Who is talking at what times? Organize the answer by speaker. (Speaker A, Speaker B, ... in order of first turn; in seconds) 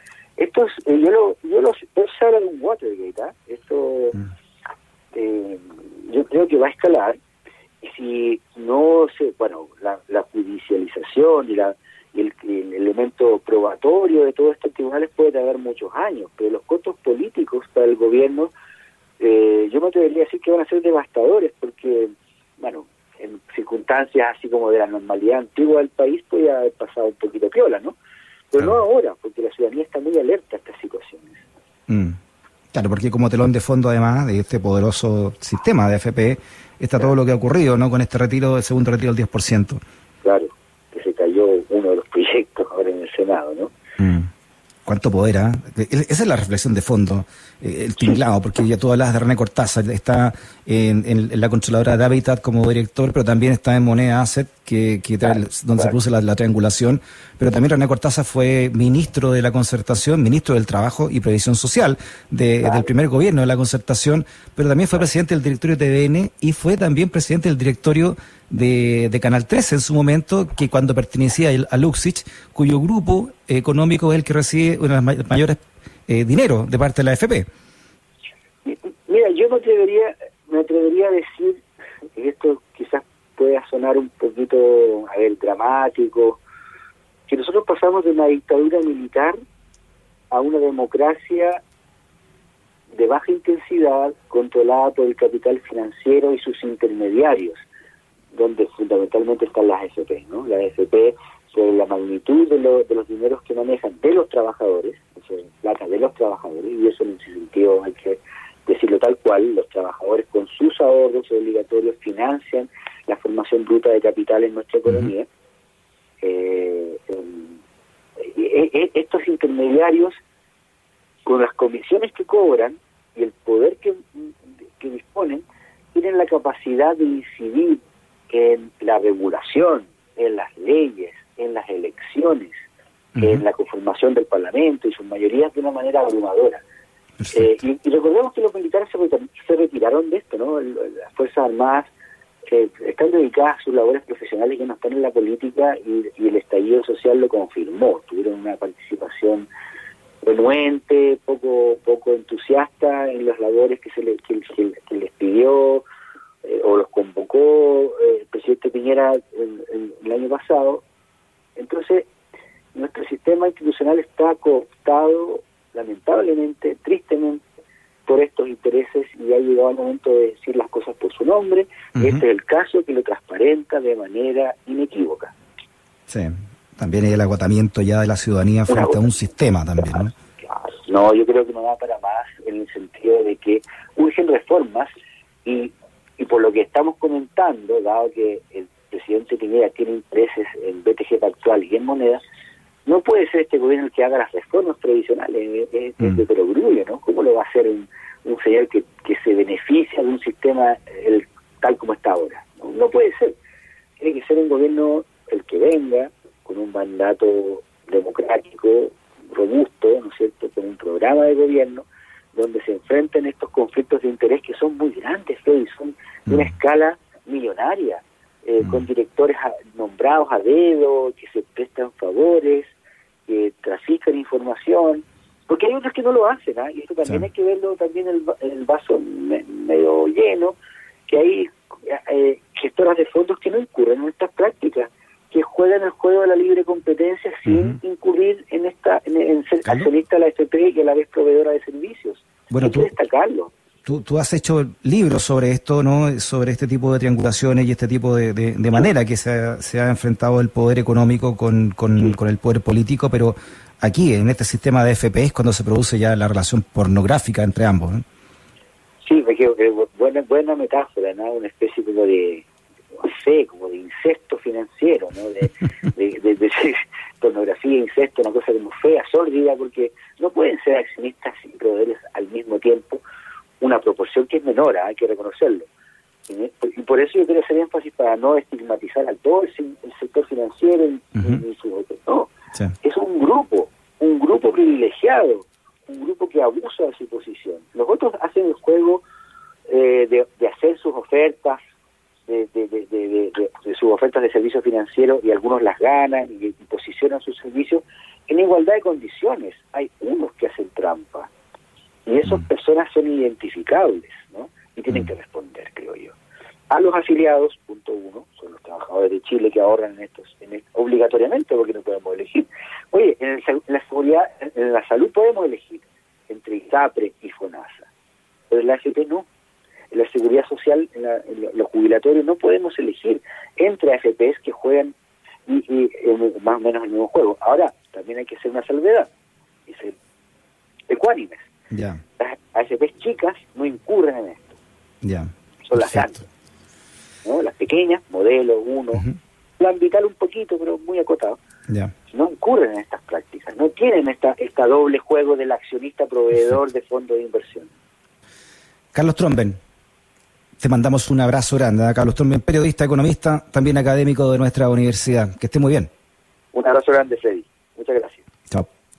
Speaker A: 0.4-4.2, 5.1-7.2, 7.8-18.5, 19.2-27.9, 28.5-31.4, 40.2-43.7, 78.6-81.6, 82.2-86.4, 87.3-89.3, 90.3-91.6, 92.9-97.6, 98.3-115.3, 116.2-117.5, 118.2-120.2, 121.2-125.4, 125.9-132.5, 133.2-136.6, 137.3-141.9, 142.5-149.5, 150.2-155.8, 156.4-160.8, 161.6-162.1, 162.7-167.4, 168.1-175.3, 178.7-179.1, 179.8-180.1, 180.7-184.9, 185.4-192.2, 192.8-203.4, 204.0-222.7, 223.3-230.6, 231.1-243.5, 259.0-262.4, 263.0-273.0, 273.6-275.7, 276.3-282.3, 282.8-289.0, 289.7-291.6, 292.3-301.3, 302.1-306.1, 306.7-317.9, 318.5-319.2, 319.9-324.9, 325.5-329.1, 329.7-329.9, 330.9-331.4, 332.2-334.6, 335.6-336.2, 337.2-339.1, 339.6-341.4, 342.1-347.7, 356.5-358.2
Speaker B: 31.9-32.2, 32.7-39.8, 44.0-44.3, 44.9-77.5, 133.2-133.4, 171.9-172.2, 176.1-180.1, 237.4-237.8, 242.5-242.9, 243.8-258.0, 331.7-332.0, 335.0-336.1, 341.7-341.9, 348.9-349.6, 350.6-355.9